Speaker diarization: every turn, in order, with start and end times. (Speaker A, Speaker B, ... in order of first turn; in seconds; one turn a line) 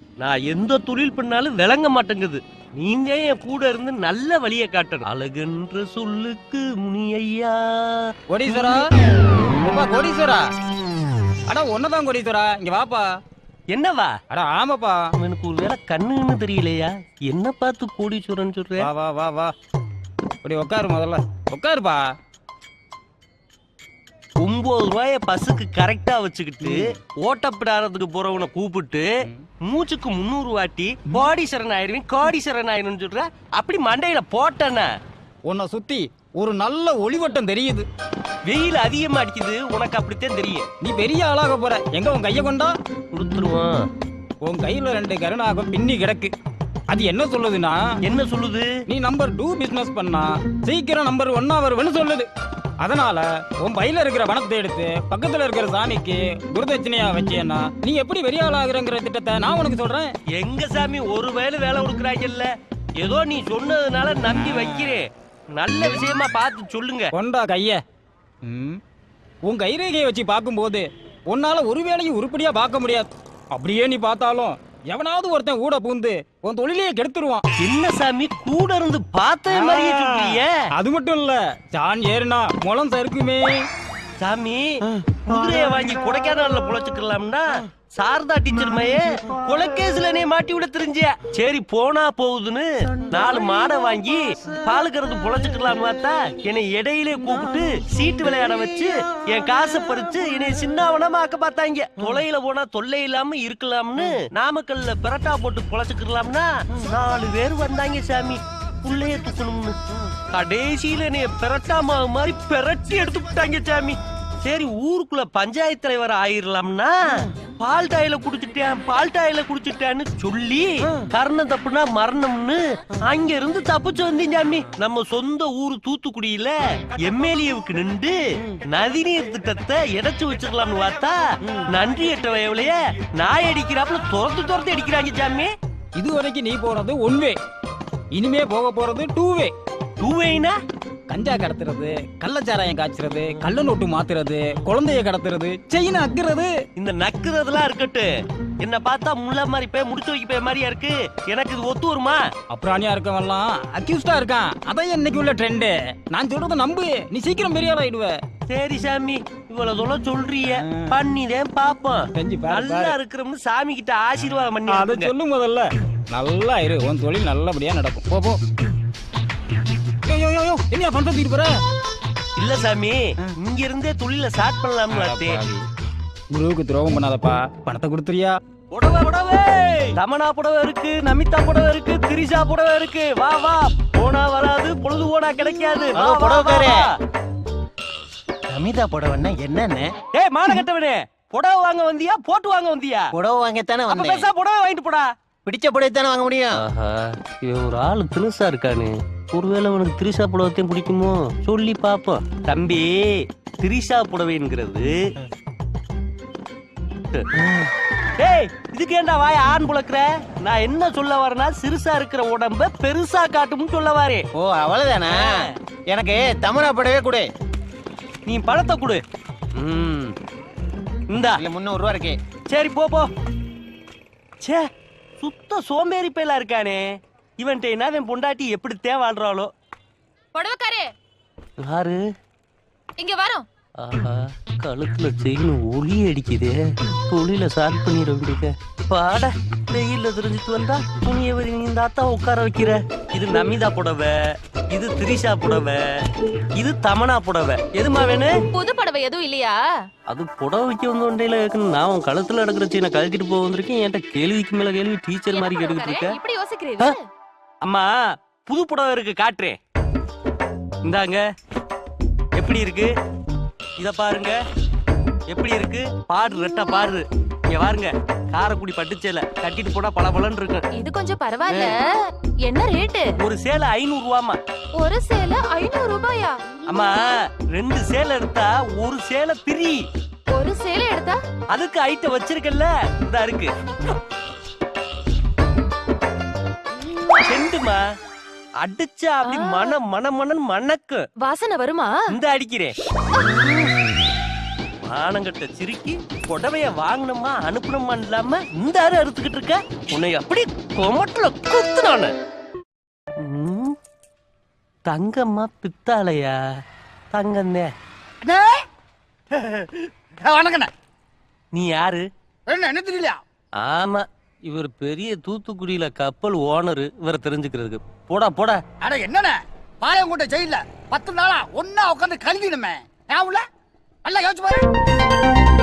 Speaker A: 0.2-8.0
Speaker B: 8.3-8.8
Speaker B: 9.6-10.4
Speaker B: 11.5-13.1
Speaker A: 13.7-14.1
Speaker B: 14.3-15.1
Speaker A: 15.2-18.9
Speaker B: 18.8-19.5
Speaker B: 20.4-22.0
Speaker A: 24.4-29.1
Speaker A: 29.7-34.9
Speaker B: 35.5-37.9
Speaker A: 38.5-40.6
Speaker B: 40.8-42.8
Speaker A: 43.1-43.8
Speaker B: 44.4-46.3
Speaker B: 46.9-48.0
Speaker A: 48.0-48.7
Speaker B: 48.9-52.3
Speaker B: 52.8-60.1
Speaker A: 60.3-67.1
Speaker B: 64.3-65.0
Speaker B: 67.1-67.8
Speaker B: 68.5-68.8
Speaker B: 69.5-77.4
Speaker A: 77.6-80.6
Speaker B: 79.5-83.6
Speaker A: 84.2-109.8
Speaker A: 110.3-117.0
Speaker A: 117.6-135.5
Speaker B: 136.0-137.4
Speaker B: 138.1-139.5
Speaker A: 140.0-140.6
Speaker B: 141.1-146.5
Speaker A: 146.8-148.1
Speaker A: 148.6-152.2
Speaker B: 152.5-158.2
Speaker A: 158.5-165.1
Speaker B: 160.6-161.0
Speaker B: 162.2-163.0
Speaker B: 164.7-168.4
Speaker B: 170.1-171.5
Speaker A: 172.4-175.4
Speaker B: 174.9-175.7
Speaker B: 176.3-178.3
Speaker A: 178.7-186.9
Speaker C: 185.9-186.8
Speaker C: 188.5-189.9
Speaker A: 190.1-193.1
Speaker C: 193.2-194.3
Speaker A: 193.9-195.1
Speaker C: 195.5-196.6
Speaker A: 196.5-205.0
Speaker A: 208.2-214.2
Speaker C: 214.4-217.3
Speaker A: 215.1-215.5
Speaker A: 218.2-219.0
Speaker A: 219.6-220.1
Speaker A: 221.1-221.4
Speaker C: 221.3-222.2
Speaker A: 222.5-223.1
Speaker A: 225.2-226.9
Speaker A: 227.4-229.5
Speaker D: 230.3-230.9
Speaker A: 231.7-232.0
Speaker D: 233.0-233.4
Speaker A: 233.8-244.1
Speaker A: 244.7-245.8
Speaker A: 246.6-248.4
Speaker D: 248.5-249.6
Speaker A: 250.1-256.2
Speaker D: 255.3-257.0
Speaker A: 257.6-257.9
Speaker A: 258.4-259.6
Speaker A: 260.9-261.2
Speaker A: 262.4-262.9
Speaker A: 263.8-264.4
Speaker A: 265.3-270.6
Speaker D: 270.7-271.9
Speaker A: 271.5-271.7
Speaker D: 272.5-273.1
Speaker A: 273.2-274.4
Speaker D: 274.8-276.4
Speaker A: 276.6-279.8
Speaker D: 280.3-281.2
Speaker A: 281.5-283.5
Speaker A: 287.2-287.8
Speaker A: 288.6-291.1
Speaker D: 289.2-289.7
Speaker D: 291.2-292.0
Speaker A: 292.1-292.7
Speaker A: 294.8-302.1
Speaker A: 303.2-303.7
Speaker A: 304.9-306.4
Speaker A: 307.1-307.7
Speaker E: 308.2-308.6
Speaker E: 309.3-310.7
Speaker A: 311.5-312.0
Speaker E: 312.5-313.2
Speaker A: 313.6-318.6
Speaker E: 318.8-323.4
Speaker E: 324.0-324.6